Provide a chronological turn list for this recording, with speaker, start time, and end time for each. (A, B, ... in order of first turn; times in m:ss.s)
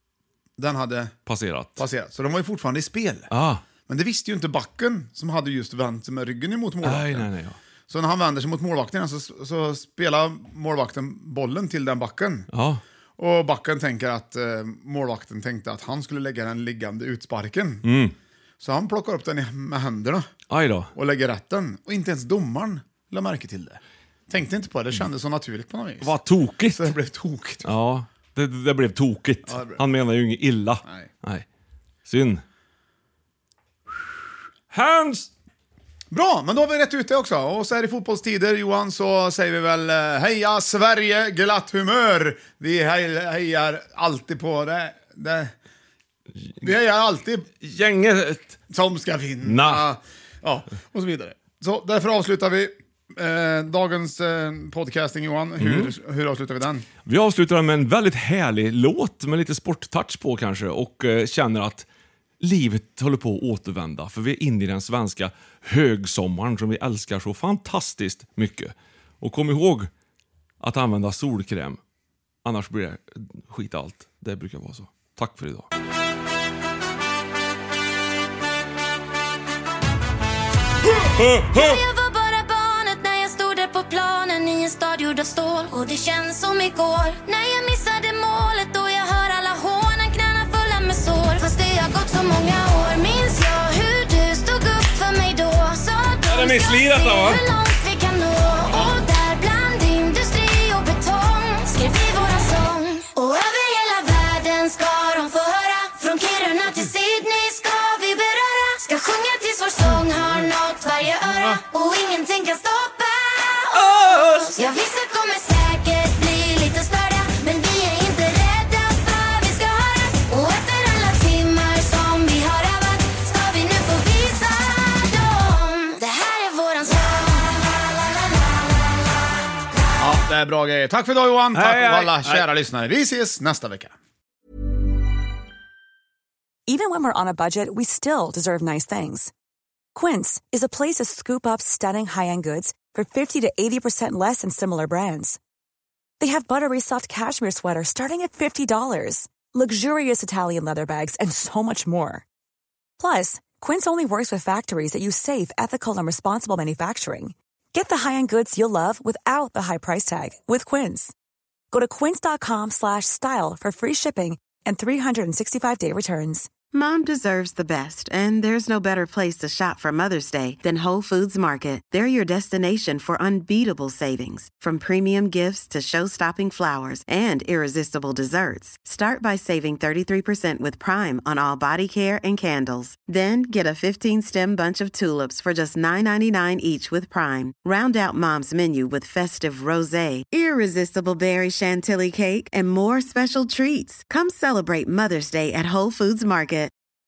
0:00.6-0:01.1 A
0:01.3-0:01.8 B
0:01.8-0:03.3 A
0:03.3-0:03.6 B
0:03.8-0:07.3 A
0:06.8-0:07.6 B
0:07.9-0:12.5 A
0:12.5-0:12.8 B
0:13.2-0:17.8 A
0:17.8-0:18.1 B
0:18.6-0:20.3 A
0:20.5-0:20.9 B
0:20.9-0:26.1 A
0:26.0-0:26.9 B
0:26.7-0:27.7 A
0:27.6-0:31.4 B
0:29.4-0:29.8 A
0:32.0-0:32.4 B
0:34.7-0:35.3 B
0:36.1-0:45.5 A
0:46.6-0:47.5 A
0:47.6-0:48.6 B
0:48.7-0:56.9 A
0:49.4-0:49.8 B
0:55.6-0:55.9 B
0:57.0-1:01.8 B
1:02.4-1:09.9 B
1:10.6-1:11.8 B
1:12.4-1:15.7 B
1:21.0-1:21.8 B
1:21.3-2:08.8 C
1:36.3-1:37.4 B
1:53.7-1:54.5 B
2:10.0-2:13.9 A
2:11.5-2:12.4 B
2:16.7-2:19.3 D
2:19.9-2:25.4 D
2:26.2-2:32.2 D
2:33.0-2:41.1 D
2:41.7-2:46.5 D
2:46.7-3:16.7 E